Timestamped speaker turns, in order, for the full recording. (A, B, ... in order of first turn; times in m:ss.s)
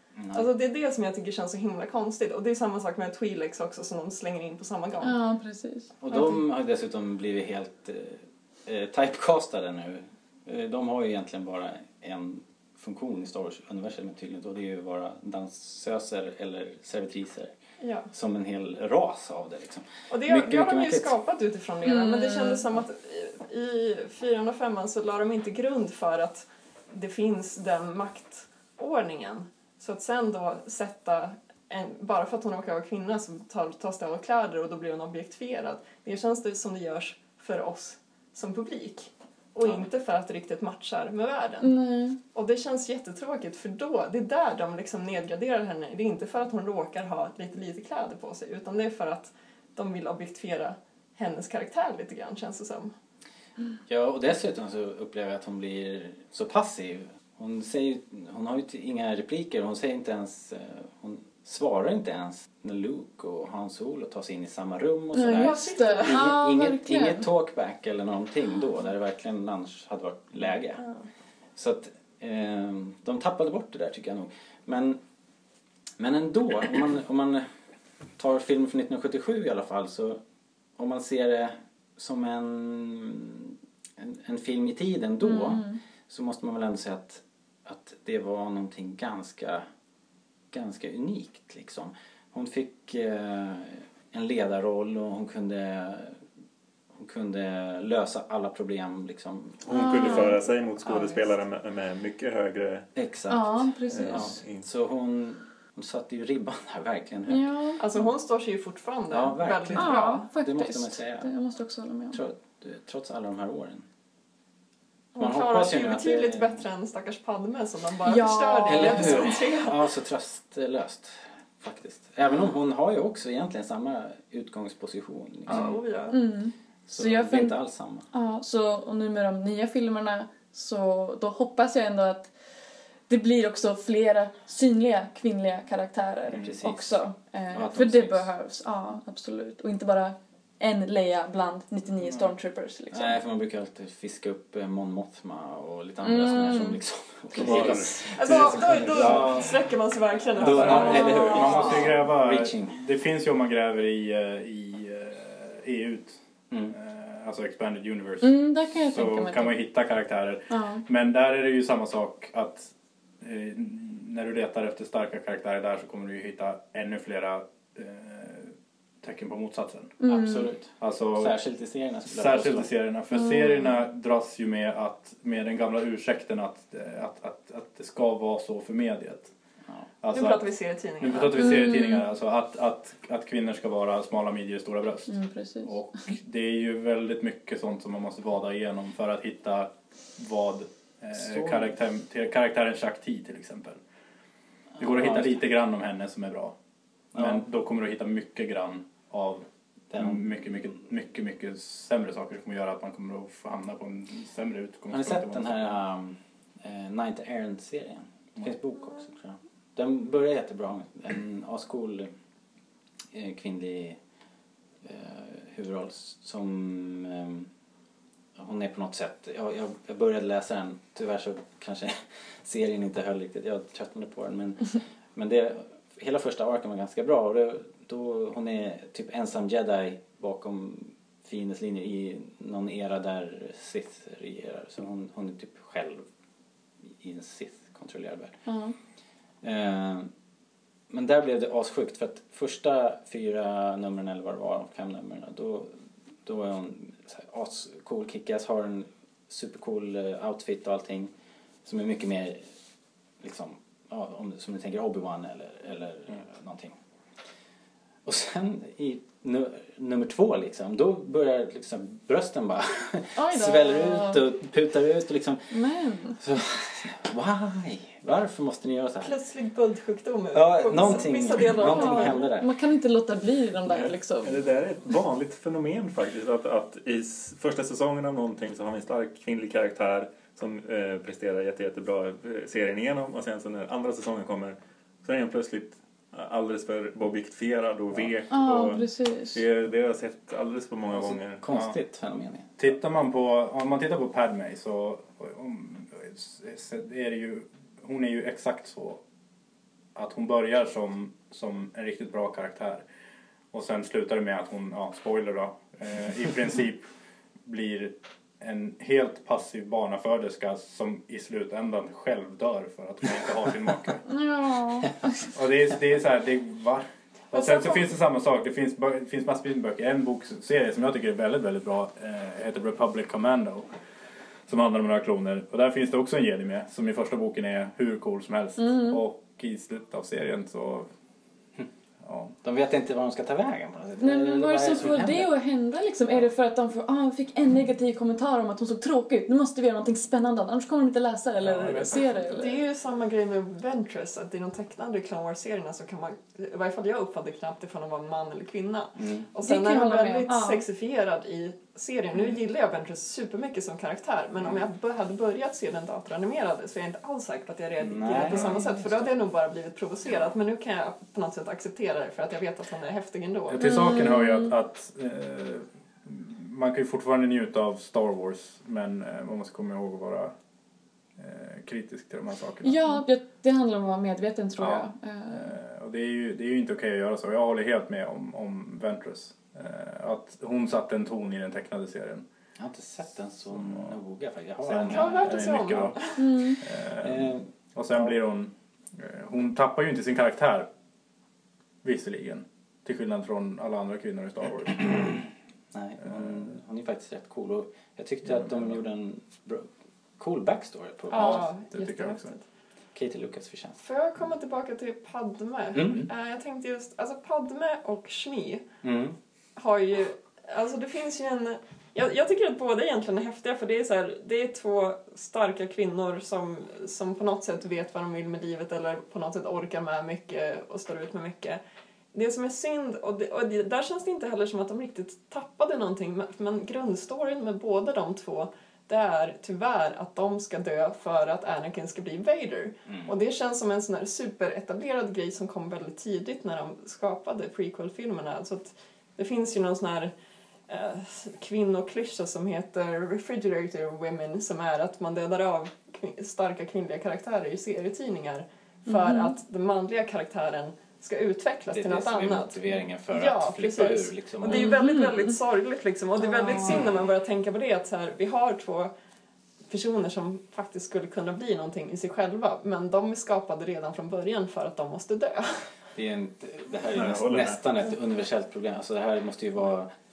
0:00.2-0:00.5 A
0:00.3-0:05.2 B
0:05.0-0:06.3 C
0:06.0-0:17.5 A
0:17.8-0:18.1 B
0:18.1-0:21.1 A
0:20.1-0:41.8 B
0:21.8-0:22.6 C
0:41.6-0:42.2 C
0:42.3-0:52.9 B
0:53.9-1:10.8 A
1:05.1-1:07.3 C
1:05.4-1:06.2 B
1:11.6-1:15.0 A
1:16.0-1:17.5 A
1:18.2-1:20.2 A
1:20.8-1:29.7 A
1:25.2-1:25.8 C
1:30.5-1:36.2 A
1:37.0-1:39.8 A
1:39.7-1:42.9 D
1:39.7-1:40.4 C
1:40.8-1:41.3 B
1:43.0-1:48.1 A
1:43.3-1:44.4 C
1:43.9-1:44.7 D
1:47.3-1:47.8 C
1:47.8-1:50.3 B
1:49.1-1:51.3 A
1:49.7-1:52.2 C
1:52.1-1:53.8 A
1:55.2-1:59.9 B
1:55.2-1:56.6 A
1:58.0-1:59.4 C
1:58.7-2:05.7 A
2:05.5-2:06.2 B
2:06.1-2:07.6 C
2:06.9-2:08.1 A
2:08.1-2:12.3 C
2:13.1-2:23.2 C
2:16.3-2:17.0 A
2:17.5-2:18.3 A
2:22.9-2:29.5 A
2:26.0-2:26.8 C
2:27.3-2:28.0 C
2:27.4-2:29.7 E
2:28.1-2:31.7 B
2:30.4-2:32.8 A
2:30.4-2:49.9 E
2:30.6-2:31.8 C
2:36.5-2:36.8 A
2:38.2-2:39.6 C
2:40.5-2:40.8 C
2:50.0-2:50.5 C
2:50.0-2:52.7 A
2:50.8-2:51.4 E
2:52.1-2:59.3 E
2:53.2-2:53.8 C
3:00.0-3:00.4 E
3:00.1-3:01.5 B
3:01.0-3:13.8 E
3:01.4-3:02.0 C
3:05.1-3:05.8 C
3:11.2-3:11.7 A
3:14.8-3:15.4 A
3:14.8-3:16.6 E
3:17.1-3:17.4 A
3:17.2-3:25.8 E
3:19.9-3:20.3 A
3:24.9-3:32.1 A
3:33.1-3:34.0 A
3:34.8-3:37.5 A
3:38.4-3:56.1 A
3:57.0-3:58.4 A
3:58.5-3:58.8 C
3:59.4-4:00.1 A
4:00.9-4:11.1 A
4:11.6-4:12.5 A
4:13.2-4:16.8 A
4:18.0-4:25.4 A
4:23.2-4:24.2 C
4:25.5-4:26.2 C
4:26.2-4:29.1 A
4:29.0-4:32.3 B
4:30.3-4:32.5 A
4:31.6-4:34.4 C
4:33.7-4:51.4 D
4:48.3-4:49.4 C
4:50.9-4:52.6 A
4:51.5-4:51.8 E
4:52.6-4:59.0 E
5:00.0-5:02.8 E
5:03.5-5:06.9 E
5:07.4-5:14.0 E
5:14.1-5:15.3 C
5:15.3-5:23.7 E
5:24.5-5:30.9 E
5:28.6-5:29.0 C
5:32.0-5:32.3 E
5:32.4-5:35.3 A
5:34.0-5:42.6 C
5:41.4-5:42.2 E
5:42.3-6:03.7 B
5:49.0-5:49.3 A
5:49.4-5:50.6 C
5:57.8-5:58.5 A
5:58.4-5:58.8 E
6:03.5-6:10.3 E
6:03.6-6:04.5 C
6:11.2-6:13.0 E
6:12.6-6:15.5 C
6:14.6-6:22.2 E
6:22.6-6:25.4 A
6:23.5-6:24.0 E
6:24.6-6:30.7 E
6:24.8-6:26.2 B
6:26.2-6:26.6 C
6:27.0-6:28.1 A
6:31.8-6:35.2 E
6:35.7-6:41.5 A
6:36.0-6:36.5 E
6:38.3-6:38.7 E
6:41.1-6:42.4 B
6:41.1-6:42.3 E
6:43.0-6:43.8 A
6:43.8-6:48.6 B
6:45.8-6:46.1 A
6:48.8-6:49.2 A
6:49.6-7:01.6 B
7:02.1-7:20.1 B
7:12.9-7:13.2 A
7:20.7-7:32.6 B
7:28.9-7:29.4 C
7:31.7-7:34.7 A
7:33.1-7:38.9 B
7:34.5-7:35.4 C
7:36.2-7:36.8 C
7:39.7-7:45.7 B
7:46.0-7:49.9 A
7:46.9-7:47.6 D